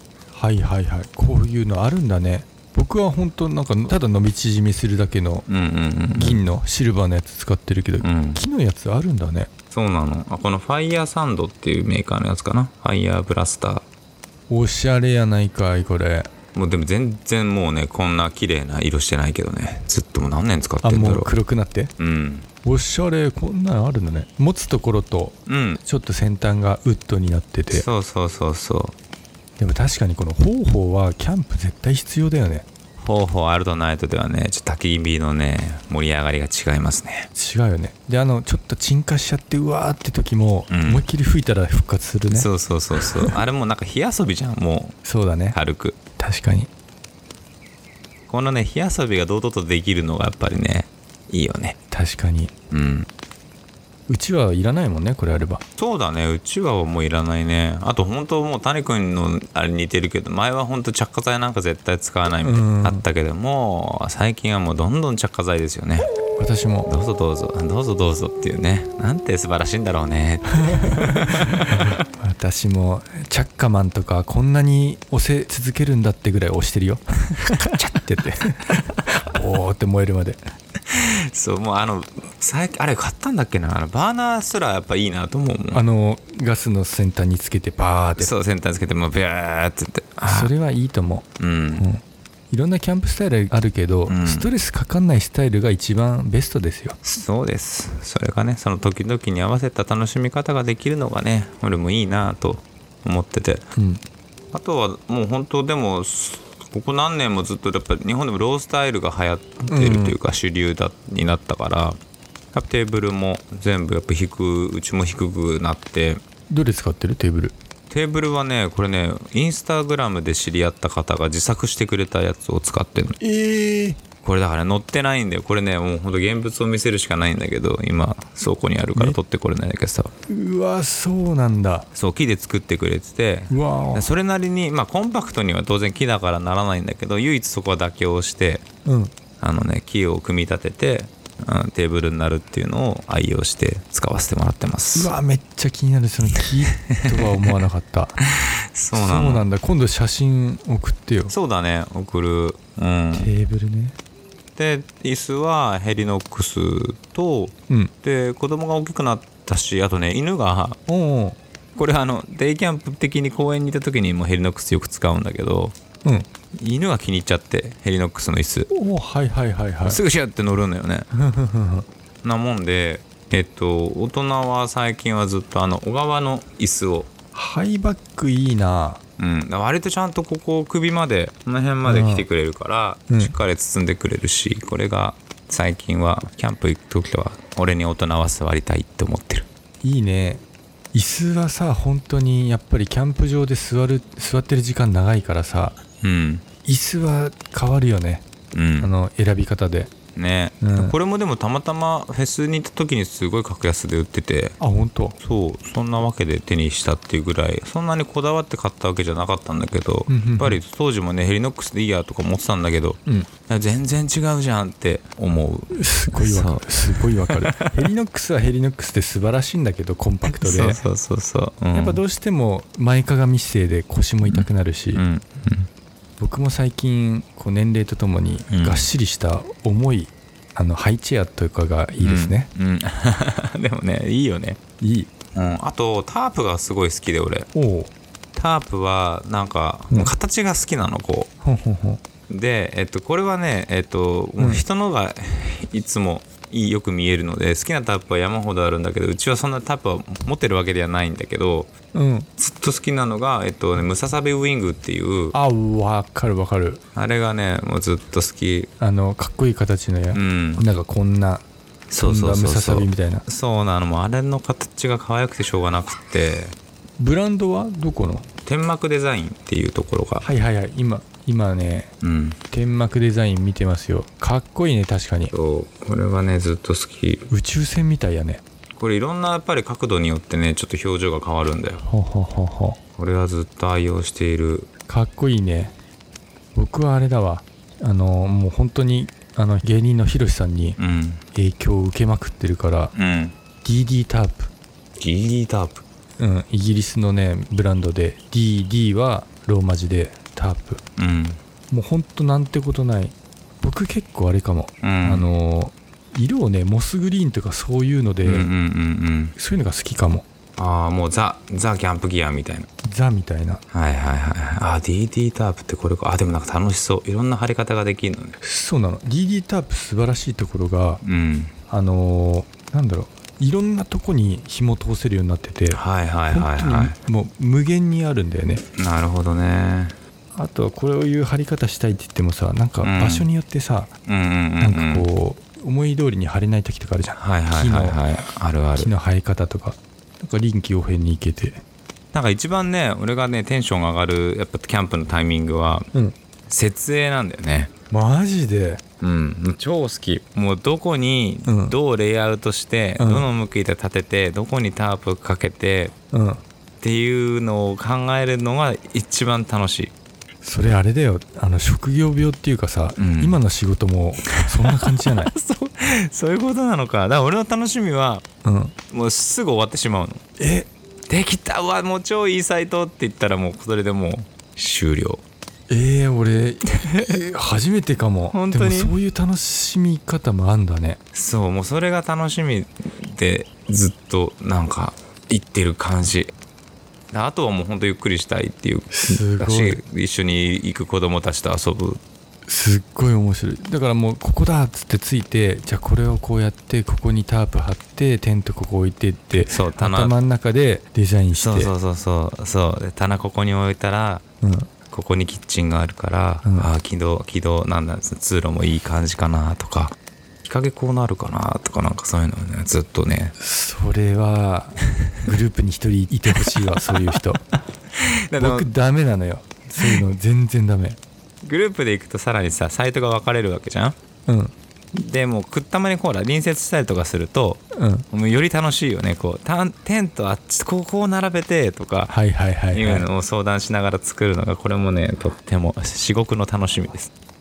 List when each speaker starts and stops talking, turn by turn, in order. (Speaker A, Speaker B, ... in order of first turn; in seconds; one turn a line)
Speaker A: 0.3-5.5
Speaker B: 5.5-6.4
Speaker A: 6.1-9.5
Speaker B: 8.0-8.4
Speaker B: 9.7-13.8
Speaker A: 14.5-16.3
Speaker B: 16.5-21.3
Speaker A: 20.8-21.9
Speaker B: 22.0-22.5
Speaker A: 22.6-27.9
Speaker B: 25.5-25.8
Speaker B: 27.7-28.9
Speaker A: 29.6-32.7
Speaker B: 33.0-37.3
Speaker A: 37.4-42.5
Speaker B: 40.7-41.1
Speaker B: 42.3-45.0
Speaker A: 45.0-45.6
Speaker B: 45.5-46.0
Speaker A: 46.2-46.7
Speaker B: 48.3-51.8
Speaker A: 51.9-52.5
Speaker B: 52.7-53.1
Speaker A: 54.1-55.6
Speaker B: 55.8-66.1
Speaker A: 62.4-63.0
Speaker A: 66.4-66.9
Speaker B: 66.9-71.9
Speaker A: 70.7-80.4
Speaker B: 77.4-78.0
Speaker B: 80.9-85.8
Speaker A: 85.7-88.3
Speaker B: 88.2-90.5
Speaker A: 90.2-97.0
Speaker B: 91.4-91.9
Speaker B: 94.1-94.5
Speaker B: 97.0-103.7
Speaker A: 103.8-104.0
Speaker B: 104.5-112.0
Speaker A: 109.7-110.2
Speaker B: 112.5-116.2
Speaker A: 116.5-117.6
Speaker B: 117.9-123.2
Speaker A: 123.2-124.0
Speaker B: 124.2-130.1
Speaker A: 130.3-131.9
Speaker B: 131.9-138.6
Speaker A: 133.5-134.1
Speaker A: 138.8-139.1
Speaker B: 139.4-145.1
Speaker A: 144.9-148.2
Speaker B: 148.8-149.5
Speaker A: 148.9-151.3
Speaker B: 151.3-153.3
Speaker A: 153.1-154.0
Speaker B: 154.6-160.8
Speaker A: 160.9-161.4
Speaker B: 161.8-165.8
Speaker B: 166.6-168.7
Speaker A: 168.7-170.0
Speaker B: 169.8-171.1
Speaker A: 171.1-171.9
Speaker B: 172.2-177.1
Speaker A: 177.3-179.0
Speaker B: 179.2-189.5
Speaker A: 181.8-182.3
Speaker A: 189.8-190.4
Speaker A: 190.9-195.8
Speaker B: 196.0-196.4
Speaker A: 196.7-198.3
Speaker B: 198.5-198.9
Speaker A: 198.8-199.9
Speaker B: 200.2-204.6
Speaker A: 200.6-201.0
Speaker A: 204.6-205.2
Speaker B: 205.2-217.8
Speaker A: 210.1-210.6
Speaker A: 215.8-220.8
Speaker B: 220.3-222.0
Speaker A: 221.7-225.0
Speaker B: 224.3-225.7
Speaker A: 226.2-232.5
Speaker B: 228.5-228.9
Speaker B: 232.0-234.6
Speaker A: 234.8-235.1
Speaker B: 235.3-237.5
Speaker A: 237.5-237.9
Speaker B: 238.3-241.3
Speaker A: 241.4-242.0
Speaker B: 242.3-251.7
Speaker A: 244.4-244.6
Speaker A: 251.9-252.3
Speaker B: 252.4-255.4
Speaker A: 255.3-256.8
Speaker B: 256.9-258.7
Speaker A: 258.8-261.4
Speaker B: 260.1-260.6
Speaker B: 261.9-266.6
Speaker A: 262.0-263.2
Speaker A: 267.0-268.3
Speaker B: 268.4-270.3
Speaker A: 270.2-271.9
Speaker B: 272.0-272.4
Speaker A: 272.5-275.3
Speaker B: 275.3-277.3
Speaker A: 277.3-278.4
Speaker B: 278.8-281.9
Speaker A: 281.9-282.8
Speaker B: 283.0-284.7
Speaker A: 284.9-285.7
Speaker A: 286.6-290.8
Speaker B: 290.8-291.2
Speaker A: 291.4-292.9
Speaker B: 292.9-293.3
Speaker A: 293.6-294.5
Speaker B: 295.0-295.8
Speaker A: 296.2-300.8
Speaker B: 301.0-301.4
Speaker A: 301.7-308.5
Speaker B: 304.8-305.2
Speaker B: 308.2-309.3
Speaker A: 309.4-310.2
Speaker B: 310.6-312.7
Speaker A: 312.9-313.6
Speaker B: 313.7-318.4
Speaker A: 318.4-321.0
Speaker B: 321.0-321.5
Speaker A: 321.7-328.6
Speaker B: 325.7-327.0
Speaker B: 328.8-329.9
Speaker A: 330.3-333.9
Speaker B: 332.8-333.3
Speaker B: 334.1-335.1
Speaker A: 334.6-338.0
Speaker B: 337.2-338.9
Speaker A: 338.8-341.6
Speaker B: 342.1-345.9
Speaker B: 346.5-347.7
Speaker A: 347.9-348.8
Speaker B: 349.0-355.9
Speaker A: 351.5-351.8
Speaker A: 353.0-353.3
Speaker A: 356.1-356.4
Speaker B: 356.8-359.9
Speaker A: 360.4-365.3
Speaker B: 363.0-363.4
Speaker B: 364.4-368.2
Speaker A: 368.4-368.7
Speaker B: 368.9-370.2
Speaker A: 370.4-370.7
Speaker B: 371.1-375.2
Speaker A: 375.7-381.0
Speaker B: 376.8-377.2
Speaker B: 378.3-378.9
Speaker B: 381.1-386.3
Speaker B: 387.1-392.0
Speaker A: 388.9-389.8
Speaker A: 392.5-401.7
Speaker B: 399.3-400.1
Speaker B: 401.4-404.2
Speaker A: 404.4-404.7
Speaker B: 404.9-413.3
Speaker A: 406.4-406.7
Speaker A: 413.4-417.4
Speaker B: 418.3-418.7
Speaker A: 418.4-421.0
Speaker B: 421.4-424.0
Speaker A: 424.3-424.5
Speaker B: 424.9-432.1
Speaker A: 427.8-428.1
Speaker A: 432.1-433.1
Speaker B: 432.7-437.1